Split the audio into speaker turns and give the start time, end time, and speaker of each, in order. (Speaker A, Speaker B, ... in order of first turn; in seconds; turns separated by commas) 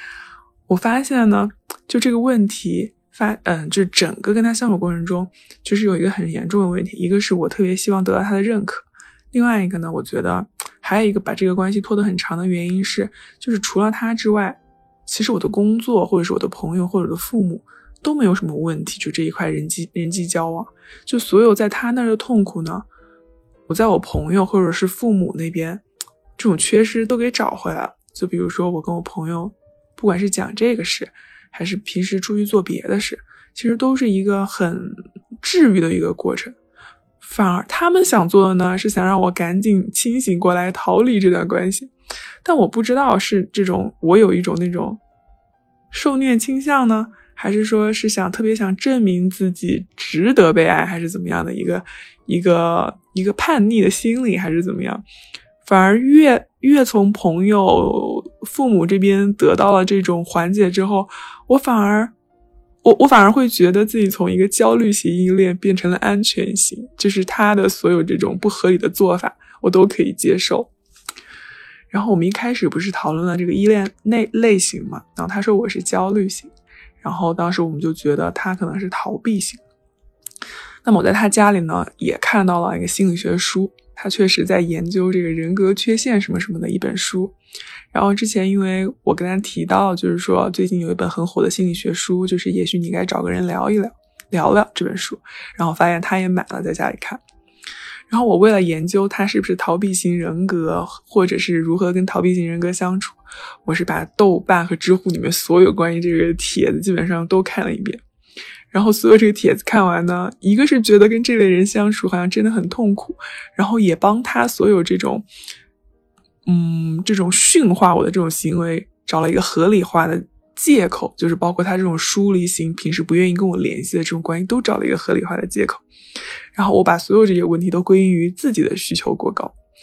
Speaker A: 0.7-22.9, Speaker A: 23.7-25.8, Speaker A: 26.4-36.5, Speaker A: 37.2-41.9, Speaker A: 42.4-45.0, Speaker A: 45.9-55.0, Speaker A: 55.6-62.1, Speaker A: 62.8-70.7, Speaker A: 71.9-79.6, Speaker A: 80.8-87.3, Speaker A: 87.9-97.2, Speaker A: 98.1-108.0, Speaker A: 108.7-115.2, Speaker A: 116.5-125.8, Speaker A: 126.5-129.5